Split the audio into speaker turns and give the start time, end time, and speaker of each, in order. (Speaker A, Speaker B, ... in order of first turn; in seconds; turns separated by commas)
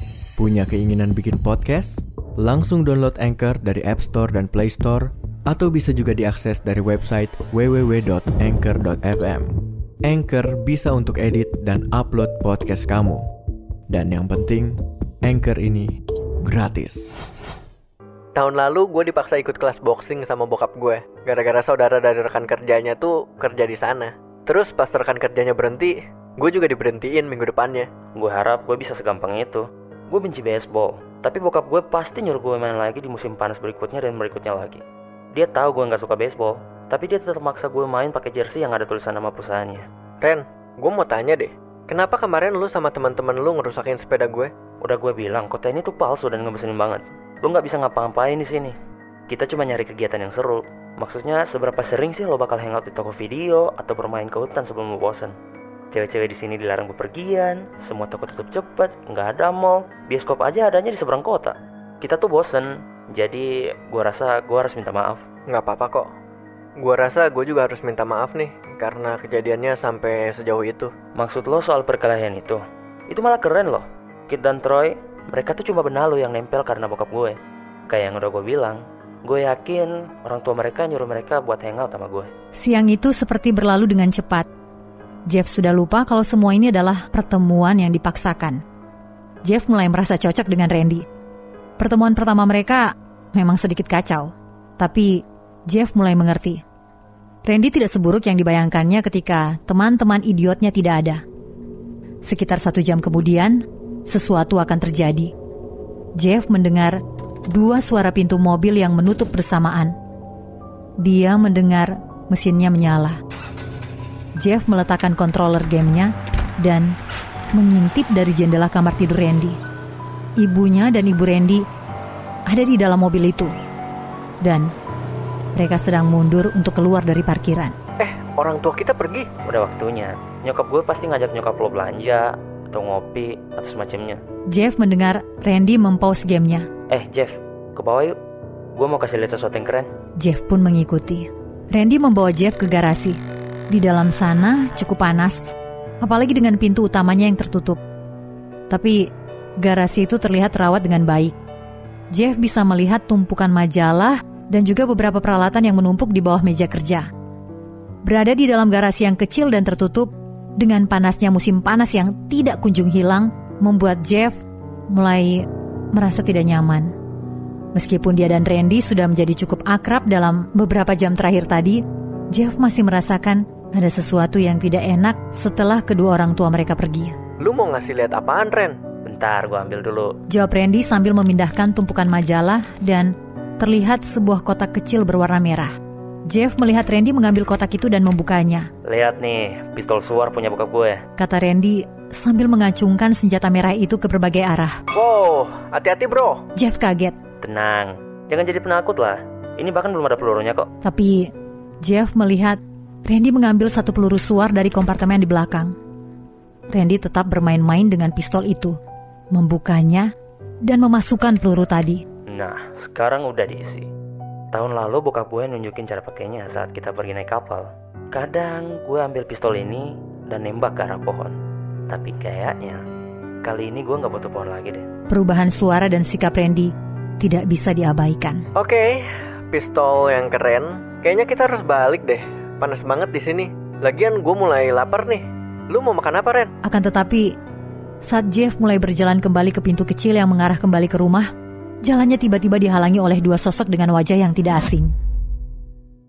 Speaker A: 0.4-13.3, Speaker A: 13.9-17.2, Speaker B: 18.3-27.9, Speaker C: 28.1-34.8, Speaker C: 35.3-39.9, Speaker B: 40.2-44.5, Speaker C: 44.8-48.8, Speaker C: 49.3-55.3, Speaker C: 55.9-65.2, Speaker B: 65.5-66.1, Speaker B: 66.8-70.9, Speaker C: 71.1-77.3, Speaker C: 77.9-82.3, Speaker D: 82.6-84.5, Speaker D: 85.3-88.6, Speaker D: 89.4-91.0, Speaker D: 91.8-96.6, Speaker D: 97.4-101.2, Speaker D: 102.2-105.3, Speaker D: 106.2-107.0, Speaker D: 107.5-110.0, Speaker D: 111.0-113.2, Speaker D: 114.4-117.0, Speaker D: 117.5-119.6, Speaker D: 120.4-121.6, Speaker D: 122.5-123.5, Speaker D: 124.4-124.7, Speaker D: 125.5-127.7, Speaker B: 128.0-129.3, Speaker C: 129.4-134.2, Speaker D: 134.5-136.7, Speaker C: 136.9-138.2, Speaker C: 138.7-139.9, Speaker D: 140.2-147.8, Speaker D: 148.7-151.3, Speaker D: 152.1-157.1, Speaker D: 158.0-166.9, Speaker D: 167.7-177.2, Speaker B: 177.4-178.8, Speaker C: 179.0-180.2, Speaker D: 180.3-185.7, Speaker D: 186.3-188.7, Speaker C: 188.8-191.0, Speaker D: 191.2-194.8, Speaker B: 194.9-196.4, Speaker D: 196.6-197.2, Speaker C: 197.4-200.7, Speaker D: 200.8-205.7, Speaker D: 206.7-208.8, Speaker D: 209.3-210.1, Speaker D: 210.6-212.0, Speaker C: 212.3-213.9, Speaker C: 214.5-221.4, Speaker C: 221.9-222.8, Speaker C: 223.4-224.8, Speaker D: 225.1-228.4, Speaker B: 228.6-236.5, Speaker D: 236.6-237.3, Speaker D: 238.0-241.3, Speaker D: 241.8-244.9